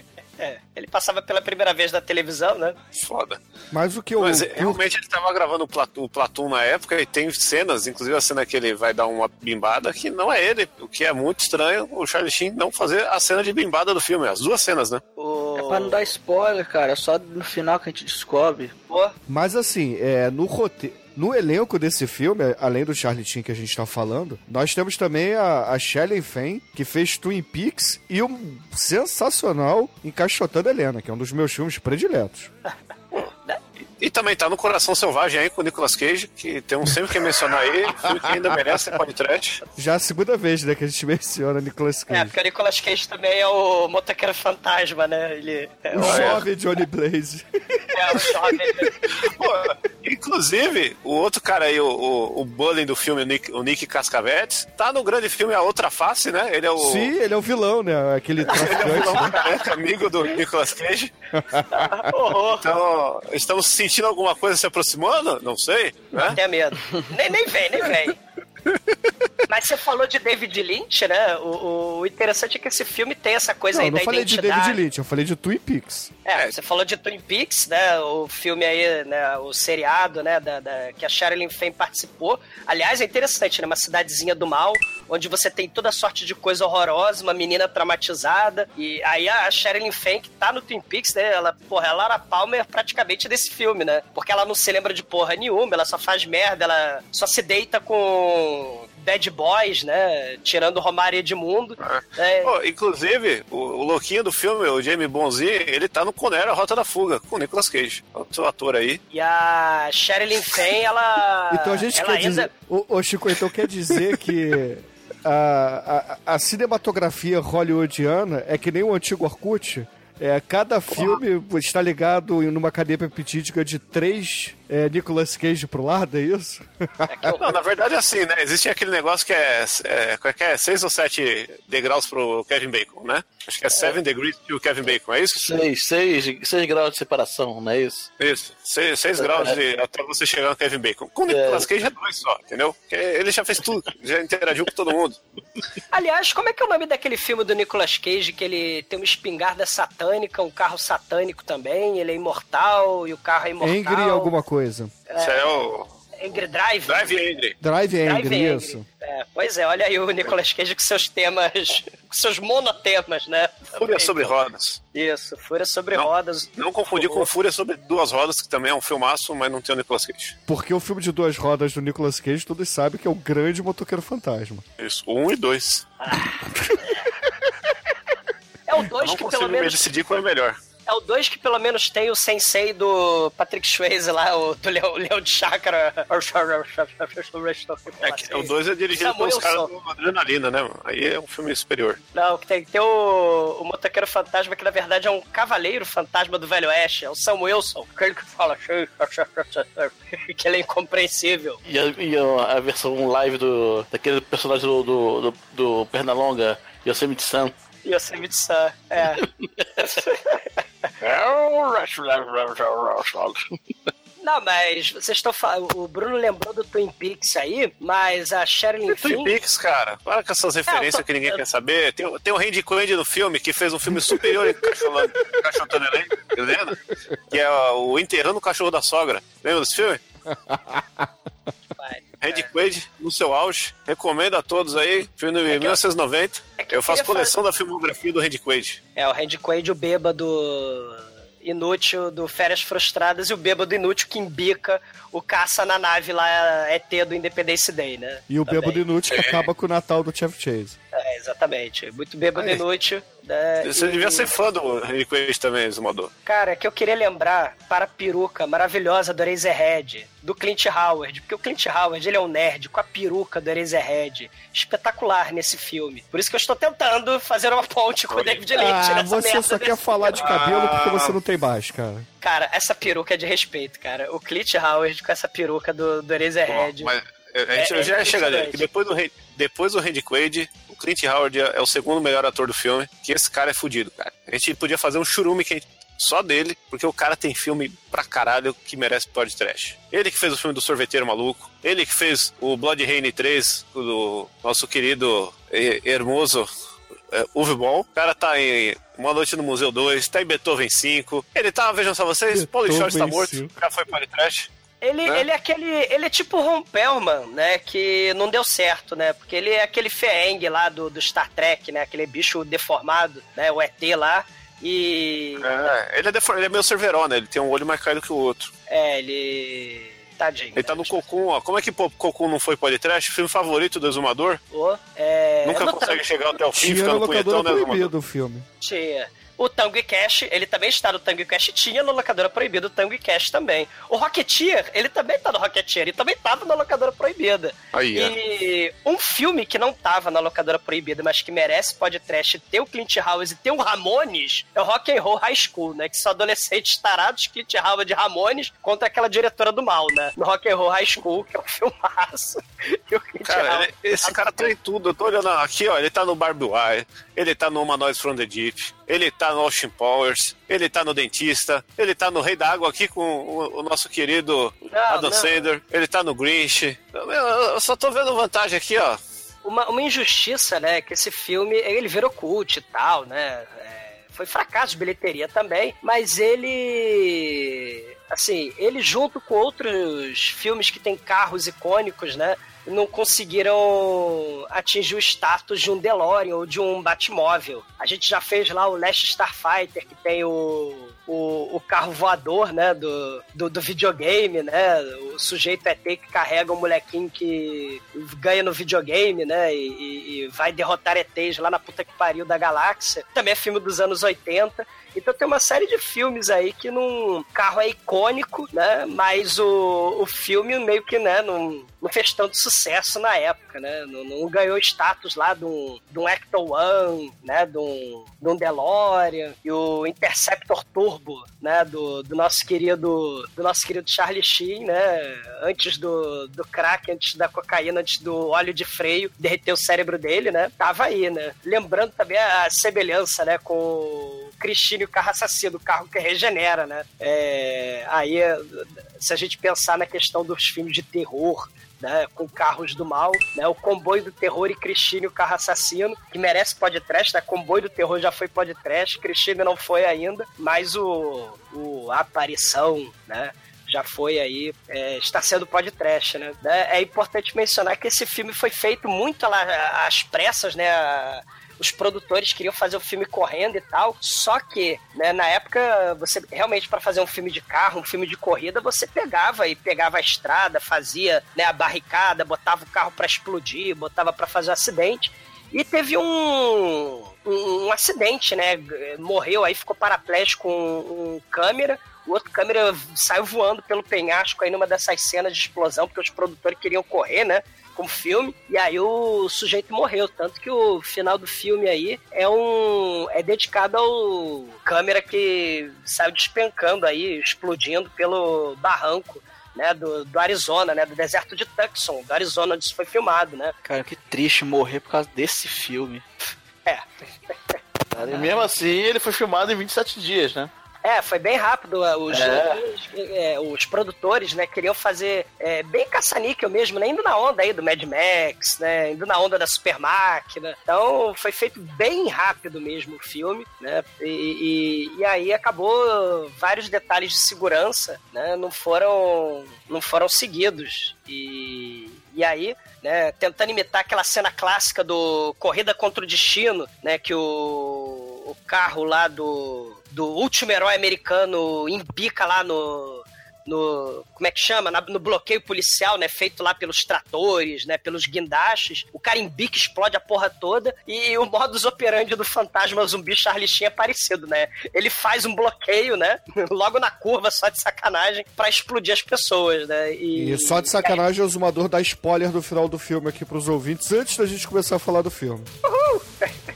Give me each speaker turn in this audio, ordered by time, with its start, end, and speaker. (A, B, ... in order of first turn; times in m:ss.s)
0:00.4-0:02.8 A
0:02.9-0:03.4 B
0:03.7-0:04.8 C
0:04.2-0:15.0 B
0:15.2-0:16.1 A
0:15.6-0:18.7 D
0:18.9-0:19.1 A
0:19.3-0:32.5 C
0:33.2-0:33.6 A
0:34.0-0:39.6 B
0:37.9-0:38.7 C
0:39.8-0:42.3 C
0:42.1-0:46.4 A
0:45.9-0:48.5 C
0:46.0-0:46.4 B
0:47.9-0:49.1 A
0:49.2-0:57.1 B
0:56.8-0:59.4 C
0:58.5-1:01.1 B
0:58.7-0:59.6 A
1:01.3-1:02.1 C
1:01.7-1:02.6 A
1:02.6-1:06.4 B
1:06.3-1:08.2 A
1:09.5-1:14.8 A
1:13.7-1:16.1 C
1:16.2-1:42.5 A
1:41.8-1:49.0 B
1:49.1-1:52.5 A
1:51.5-2:07.3 C
2:07.1-2:07.5 A
2:07.4-2:15.6 B
2:15.4-2:18.1 E
2:18.2-2:25.2 B
2:19.2-2:19.6 E
2:21.3-2:21.7 E
2:25.9-2:34.3 A
2:33.6-2:34.9 C
2:35.1-2:35.4 A
2:35.2-2:35.9 B
2:36.2-2:37.2 A
2:36.9-2:37.6 B
2:37.6-2:38.8 C
2:38.0-2:44.4 A
2:43.8-2:44.8 B
2:44.9-2:47.3 A
2:45.9-2:50.3 B
2:50.5-2:54.6 C
2:54.8-2:55.9 B
2:56.0-2:56.4 A
2:58.7-2:59.9 A
2:59.0-3:00.6 B
3:00.9-3:09.7 A
3:08.0-3:12.0 B
3:12.1-3:21.6 A
3:21.7-3:27.5 E
3:27.8-3:29.2 A
3:29.4-3:29.8 E
3:29.8-3:30.6 A
3:31.0-3:33.5 E
3:34.2-3:39.3 A
3:38.9-3:50.0 B
3:40.7-3:41.4 A
3:44.1-3:44.7 C
3:50.3-3:51.1 C
3:51.8-3:52.5 A
3:52.2-3:58.8 B
3:55.5-3:55.8 A
3:56.6-3:57.3 A
3:59.0-4:08.8 A
4:08.3-4:10.8 C
4:09.1-4:09.4 B
4:10.9-4:14.3 A
4:12.4-4:12.6 B
4:13.6-4:16.1 B
4:16.2-4:30.4 A
4:28.1-4:28.5 B
4:28.5-4:32.0 C
4:30.2-4:31.2 B
4:32.2-4:36.9 A
4:36.5-4:56.5 B
4:37.5-4:38.6 A
4:57.1-5:04.5 B
5:02.3-5:03.5 C
5:04.8-5:15.4 A
5:15.4-5:18.5 B
5:18.7-5:21.0 A
5:20.6-5:24.4 B
5:24.5-5:26.0 A
5:25.4-5:27.9 B
5:26.6-5:28.4 C
5:28.6-5:54.5 A
5:37.7-5:38.1 B
5:53.2-6:09.0 B
6:04.6-6:05.5 A
6:09.4-8:23.5 A
8:23.6-8:26.0 D
8:26.6-8:27.6 A
8:27.9-8:30.5 E
8:28.1-8:28.4 D
8:30.8-9:21.0 A
8:32.1-8:32.6 E
9:20.2-9:25.5 C
9:25.6-9:26.3 A